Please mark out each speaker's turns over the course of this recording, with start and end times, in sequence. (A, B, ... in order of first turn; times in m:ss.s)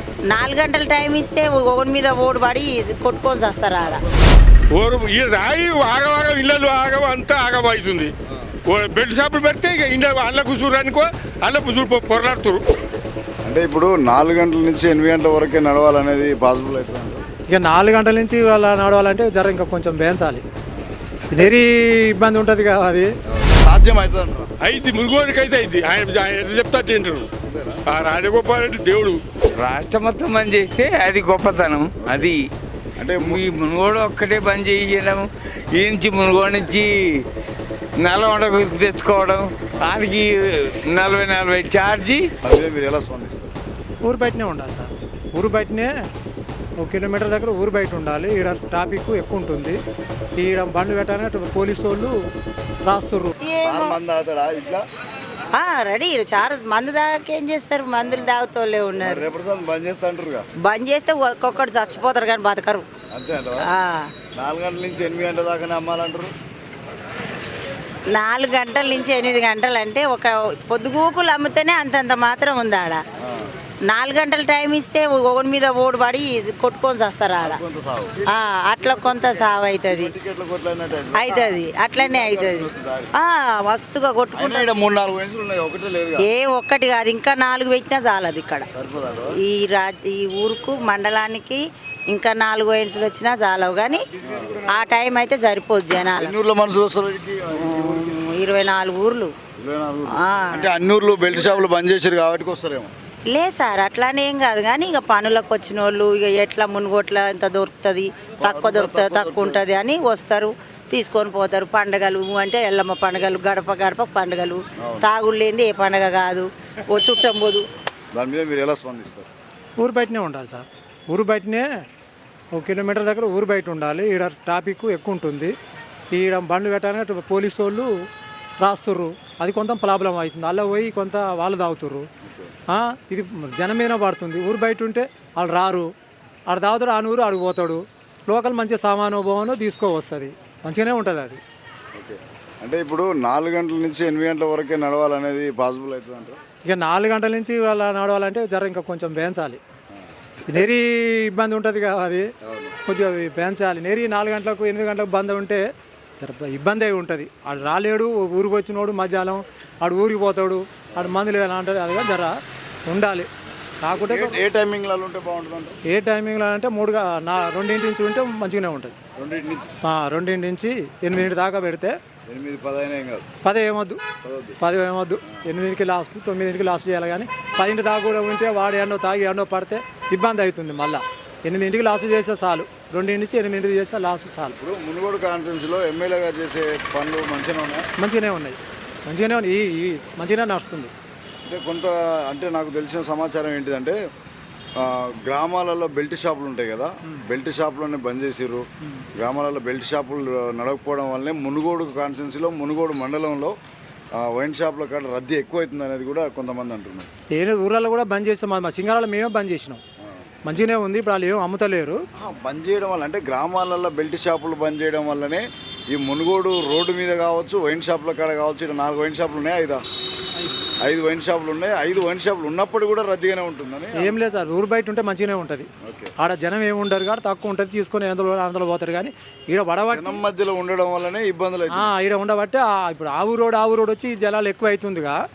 0:00.3-0:04.0 A
0:04.8-0:08.1 B
0:08.7-0:12.6 B
0:13.4-0:17.2 C
0:17.5-0:20.4 D
0:21.3-0:23.1 D
0:23.3-0:24.5 C
0:24.6-0:27.3 B
0:27.4-0:27.8 C
0:27.9-0:29.2 B
0:29.6-0:32.4 E
0:32.0-0:32.3 C
0:33.0-0:33.4 C
0:33.1-0:35.2 E
0:35.8-0:36.9 E
0:38.0-0:42.3 E
0:42.4-0:43.5 C
0:44.0-0:45.9 D
0:46.8-0:49.8 D
0:50.4-0:52.2 D
0:52.8-0:53.3 D
0:53.4-0:54.0 A
0:53.6-0:54.8 C
0:55.5-0:59.2 A
0:58.0-0:58.3 C
0:59.0-1:00.5 C
1:00.6-1:02.8 A
1:03.1-1:03.7 C
1:03.6-1:04.1 A
1:04.4-1:06.3 C
1:08.1-1:13.0 A
1:13.2-1:13.5 C
1:13.9-1:17.6 A
1:17.4-1:18.4 C
1:18.3-1:20.1 A
1:19.3-1:23.1 C
1:21.2-1:24.7 A
1:24.3-1:26.3 C
1:26.2-1:28.7 A
1:28.7-1:29.4 C
1:29.4-1:34.0 A
1:34.2-1:34.6 C
1:34.6-1:36.3 A
1:36.2-1:38.2 C
1:37.6-1:39.3 A
1:39.6-1:42.9 C
1:40.2-1:40.7 A
1:43.3-1:57.6 A
1:48.4-1:49.6 C
1:54.8-1:55.1 C
1:58.1-1:59.3 C
1:59.8-2:01.7 D
2:02.5-2:05.5 D
2:06.1-2:07.9 D
2:08.6-2:12.0 D
2:12.2-2:12.5 C
2:12.7-2:15.9 D
2:16.5-2:21.4 D
2:22.0-2:26.4 C
2:26.7-2:29.6 D
2:30.5-2:32.3 D
2:32.4-2:32.8 C
2:32.8-2:35.6 D
2:36.2-2:42.3 D
2:42.9-2:43.3 D
2:43.8-2:44.4 D
2:44.0-2:45.8 C
2:45.9-2:48.9 D
2:49.2-2:49.7 C
2:49.8-2:52.0 D
2:52.3-2:53.3 C
2:53.4-2:54.0 D
2:54.2-2:54.6 C
2:54.6-3:04.6 D
3:04.6-3:07.9 C
3:08.0-3:10.9 D
3:11.4-3:14.0 C
3:14.8-3:23.6 C
3:24.2-3:27.1 C
3:27.3-3:29.8 D
3:30.4-3:32.0 D
3:32.2-3:39.8 C
3:40.8-3:44.2 C
3:44.0-3:50.2 D
3:45.8-3:46.1 C
3:49.9-3:51.9 C
3:51.7-3:55.2 D